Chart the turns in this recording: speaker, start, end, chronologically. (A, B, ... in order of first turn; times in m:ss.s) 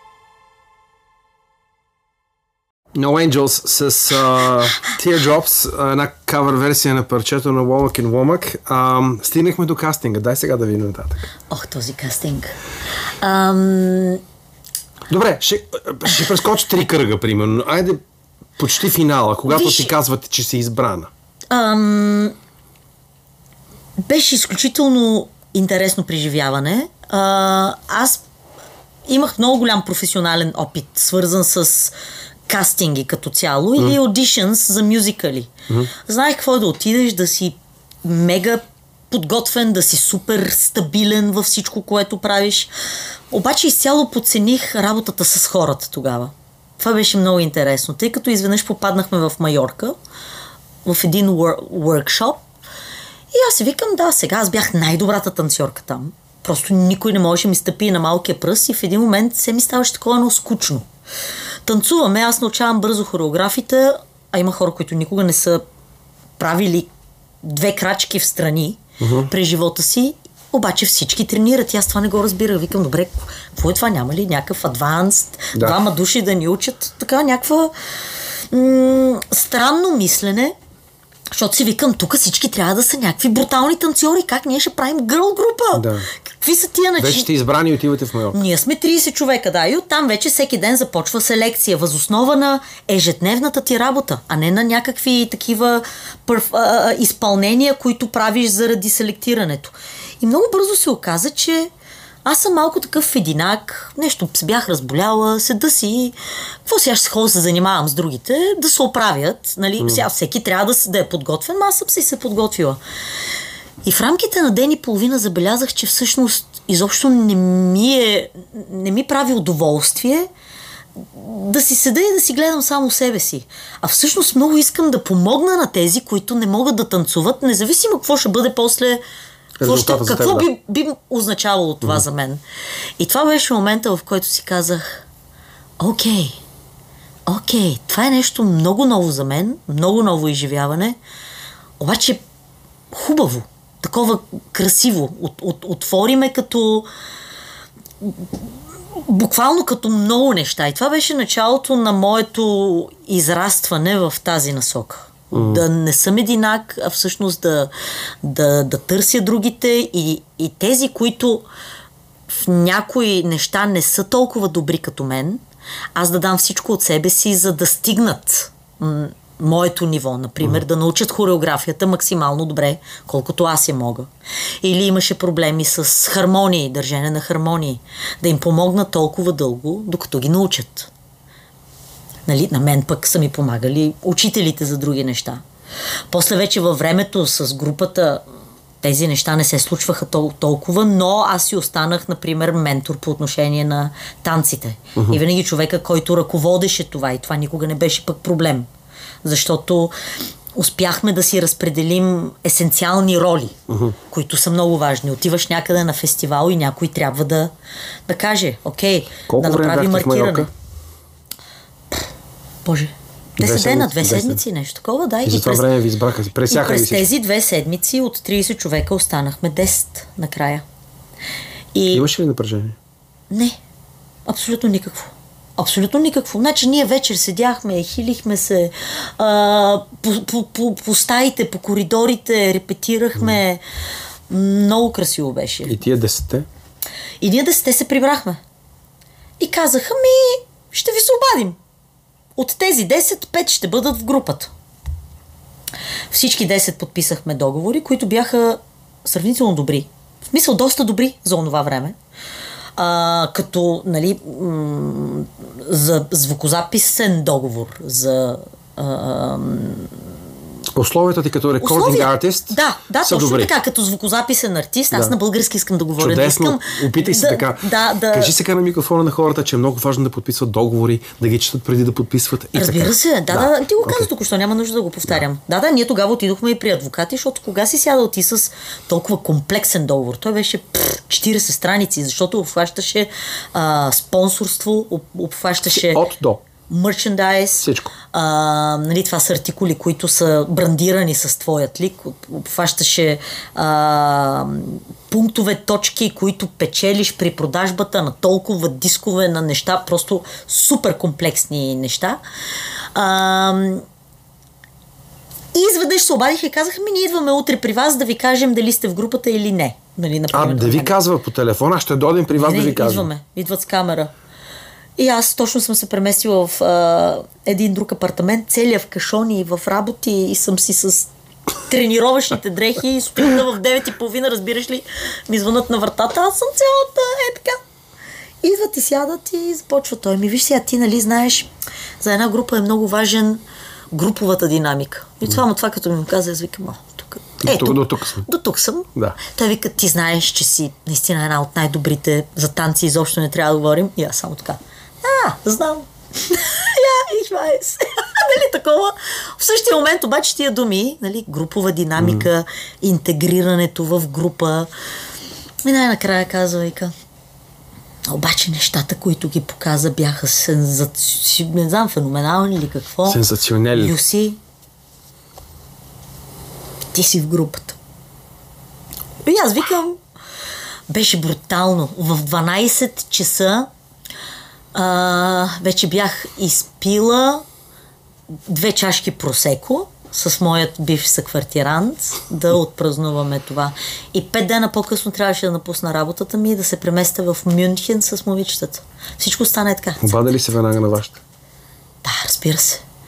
0:02.9-0:11.3 A
0:11.5-0:12.5 B
0:13.2-0:14.2 B
0:15.1-0:18.0 A
0:18.6-0:21.1 A
0:19.5-0:19.9 B
0:21.5-0:22.3 B
0:24.0-0:28.2 B
0:29.1-0:31.9 B
0:32.5-0:42.7 B
0:43.3-0:49.9 B
0:50.8-0:52.4 B
0:53.3-1:00.8 B
1:01.6-1:05.6 B
1:06.4-1:06.9 B
1:07.4-1:20.5 B
1:09.0-1:09.3 A
1:15.5-1:15.8 A
1:21.3-1:27.3 B
1:25.7-1:26.1 A
1:27.0-1:28.4 A
1:28.3-1:41.7 B
1:42.2-1:52.8 B
1:49.8-1:50.0 A
1:53.8-2:00.3 B
2:01.0-2:09.0 B
2:09.6-2:10.5 A
2:09.6-2:12.4 B
2:13.0-2:15.0 B
2:15.8-2:16.4 B
2:17.3-2:21.0 B
2:21.8-2:22.2 B
2:22.9-2:26.9 B
2:29.0-2:37.7 B
2:35.3-2:35.6 A
2:38.2-2:41.5 B
2:42.3-2:45.4 B
2:46.0-2:54.1 B
2:54.6-3:00.9 B
3:02.3-3:05.4 B
3:06.1-3:08.2 B
3:08.8-3:18.7 B
3:14.9-3:15.2 A
3:19.2-3:19.9 B
3:20.5-3:23.6 B
3:23.7-3:24.0 A
3:24.1-3:27.5 B
3:28.1-3:30.5 B
3:29.3-3:30.5 A
3:32.6-3:35.7 B
3:33.4-3:34.4 A
3:35.2-3:37.1 A
3:36.5-3:40.6 B
3:41.7-3:42.0 B
3:41.9-3:42.8 A
3:43.3-3:43.6 B
3:44.3-3:53.6 B
3:54.3-3:55.8 B
3:55.6-3:56.5 A
3:57.2-3:58.4 B
3:59.4-4:01.6 B
4:02.4-4:04.5 B
4:06.1-4:11.9 B
4:12.8-4:20.0 B
4:20.7-4:23.5 A
4:21.6-4:28.3 B
4:26.0-4:34.1 A
4:32.5-4:46.0 B
4:45.7-4:46.4 A
4:46.7-5:02.2 B
4:47.6-4:48.0 A
5:02.9-5:03.8 B
5:05.5-5:10.9 B
5:10.3-5:13.1 A
5:12.3-5:14.1 B
5:15.0-5:21.1 B
5:21.7-5:27.6 B
5:28.4-5:31.5 B
5:32.0-5:54.7 B
5:37.4-5:38.3 A
5:52.0-5:52.3 A
5:55.6-5:56.9 B
5:58.1-6:04.4 B
6:03.0-6:04.0 A
6:06.9-6:07.8 B
6:09.2-6:10.0 B
6:10.9-6:13.7 B
6:14.7-6:17.4 B
6:18.5-6:30.4 B
6:30.0-6:31.2 A
6:32.0-6:32.8 B